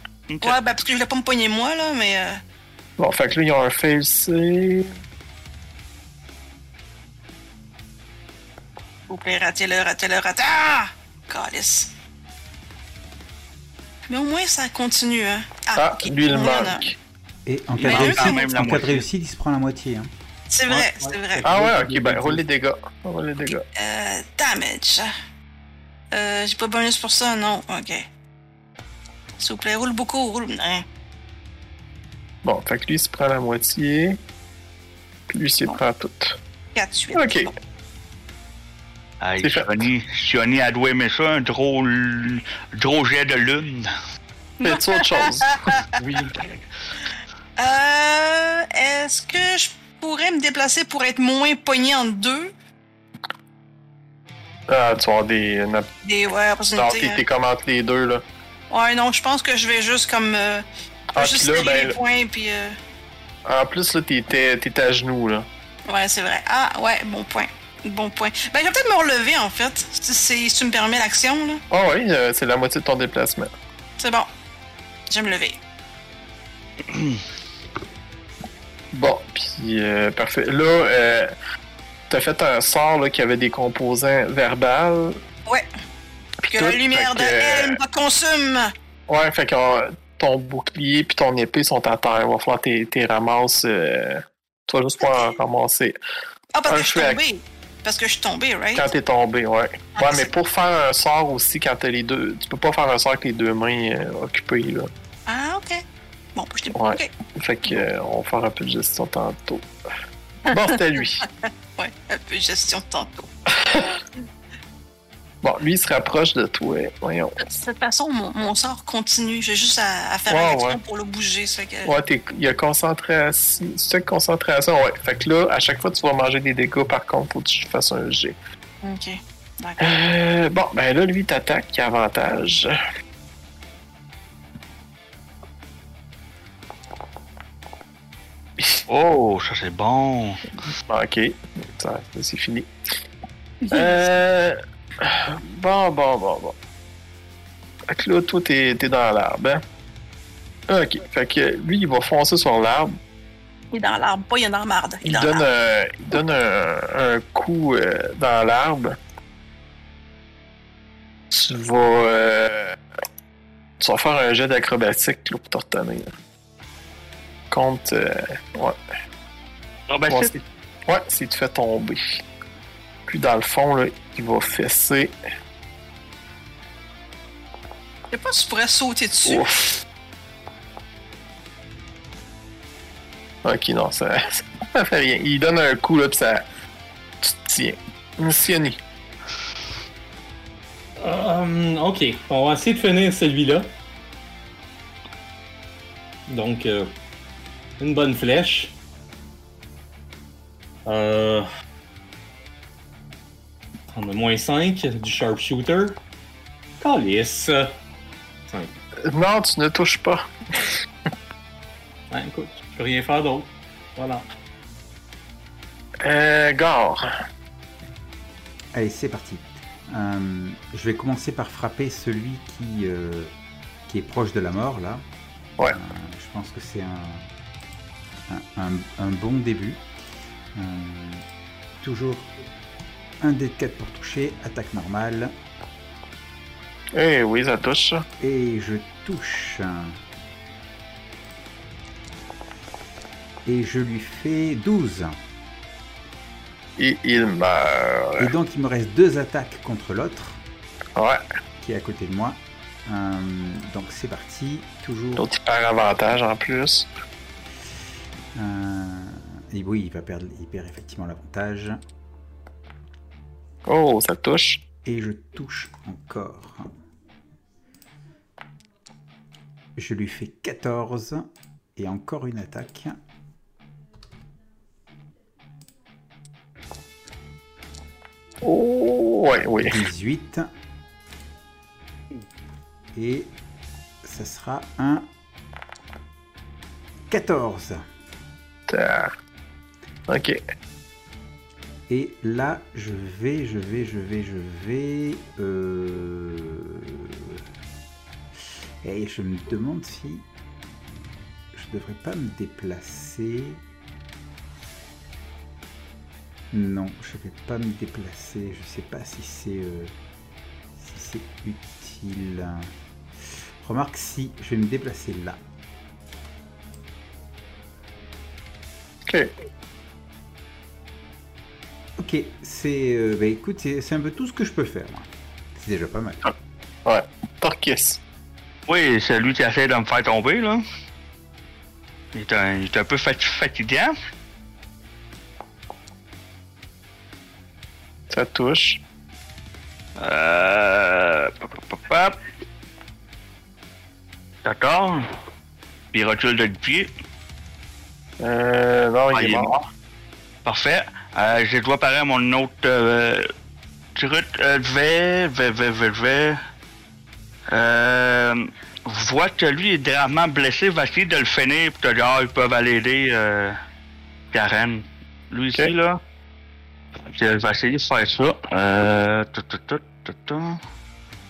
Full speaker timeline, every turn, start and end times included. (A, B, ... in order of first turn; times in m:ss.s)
0:00.3-0:00.6 A
0:00.4-0:02.4 B
0:03.0-0:04.9 C
0:09.1-0:11.9 B
0:14.1-0:16.9 B
0:15.8-0:17.0 C
0:17.5-0:20.1 D
0:17.8-0:19.0 A
0:17.8-0:18.6 B
0:20.5-0:21.5 B
0:20.7-0:22.4 E
0:21.4-0:23.6 C
0:23.8-0:25.1 B
0:26.1-0:28.0 B
0:29.4-0:30.8 B
0:32.4-0:34.2 C
0:35.3-0:36.4 C
0:36.8-0:37.5 B
0:37.2-0:37.5 C
0:39.2-0:43.9 A
0:39.4-0:39.7 C
0:44.6-0:46.0 B
0:44.6-0:45.6 C
0:47.6-0:52.5 B
0:54.7-0:55.9 C
0:56.0-0:57.2 B
0:56.8-0:58.2 C
0:58.7-1:00.6 B
1:01.2-1:02.0 C
1:01.2-1:02.8 B
1:03.4-1:05.5 C
1:05.9-1:11.6 B
1:11.7-1:13.5 C
1:14.0-1:14.3 B
1:15.1-1:15.6 B
1:16.9-1:17.2 A
1:18.9-1:21.3 C
1:22.1-1:25.2 C
1:26.5-1:27.8 C
1:26.5-1:28.7 B
1:29.1-1:36.0 C
1:35.0-1:35.4 B
1:36.5-1:38.9 B
1:36.7-1:37.2 C
1:38.8-1:44.9 C
1:40.0-1:40.3 B
1:45.3-1:45.8 B
1:46.4-1:47.1 B
1:46.8-1:49.7 C
1:50.5-1:51.2 C
1:51.3-1:53.3 B
1:53.6-1:53.9 C
1:55.4-1:57.4 C
1:57.4-2:01.9 B
2:00.3-2:00.8 C
2:01.8-2:08.4 C
2:08.8-2:09.9 B
2:09.8-2:12.8 C
2:18.9-2:20.5 A
2:20.8-2:22.7 C
2:23.6-2:24.0 B
2:23.7-2:26.6 C
2:27.9-2:29.6 C
2:30.7-2:32.9 C
2:33.7-2:35.5 B
2:35.0-2:39.0 C
2:41.3-2:42.8 C
2:43.8-2:46.1 C
2:47.5-2:48.8 C
2:49.9-2:50.3 A
2:50.1-2:52.0 C
2:53.1-2:55.1 C
2:58.1-2:59.5 B
2:59.3-2:59.8 C
3:03.4-3:06.4 C
3:07.2-3:08.8 C
3:11.0-3:13.7 E
3:16.3-3:16.9 E
3:17.8-3:18.8 E
3:20.9-3:21.5 E
3:23.9-3:26.0 E
3:26.8-3:27.8 E
3:28.5-3:28.8 E
3:29.1-3:30.3 C
3:32.1-3:34.3 E
3:36.0-3:37.1 C
3:38.7-3:43.3 D
3:43.9-3:45.0 D
3:45.7-3:47.3 D
3:48.3-3:49.9 D
3:50.6-3:51.2 D
3:51.8-3:52.3 D
3:53.2-3:55.3 D
3:57.0-3:58.1 C
3:58.2-4:00.0 D
4:03.4-4:05.2 D
4:06.8-4:08.3 C
4:08.2-4:10.4 D
4:11.0-4:11.2 C
4:11.6-4:15.3 D
4:15.2-4:16.9 C
4:18.4-4:21.8 D
4:23.7-4:24.6 C
4:24.8-4:26.7 D
4:29.8-4:33.0 D
4:38.4-4:39.8 C
4:39.6-4:40.5 D
4:43.0-4:43.3 D
4:44.0-4:45.1 D
4:47.1-4:47.8 D
4:48.7-4:49.2 C
4:50.1-4:50.4 C
4:51.9-4:57.4 D
4:58.8-5:00.3 D
5:01.5-5:03.6 D
5:06.5-5:09.9 D
5:10.8-5:12.7 D
5:13.6-5:15.4 D
5:22.0-5:26.2 D
5:26.8-5:28.0 C
5:28.7-5:30.6 A
5:32.1-5:33.9 A
5:38.1-5:38.8 C
5:40.0-5:42.2 A
5:44.4-5:45.1 A
5:45.9-5:46.9 A
5:48.2-5:49.5 C
5:49.1-5:49.7 A
5:50.4-5:53.3 A
5:54.0-5:56.4 A
5:57.5-6:03.6 A
6:04.3-6:06.0 A
6:07.1-6:10.6 A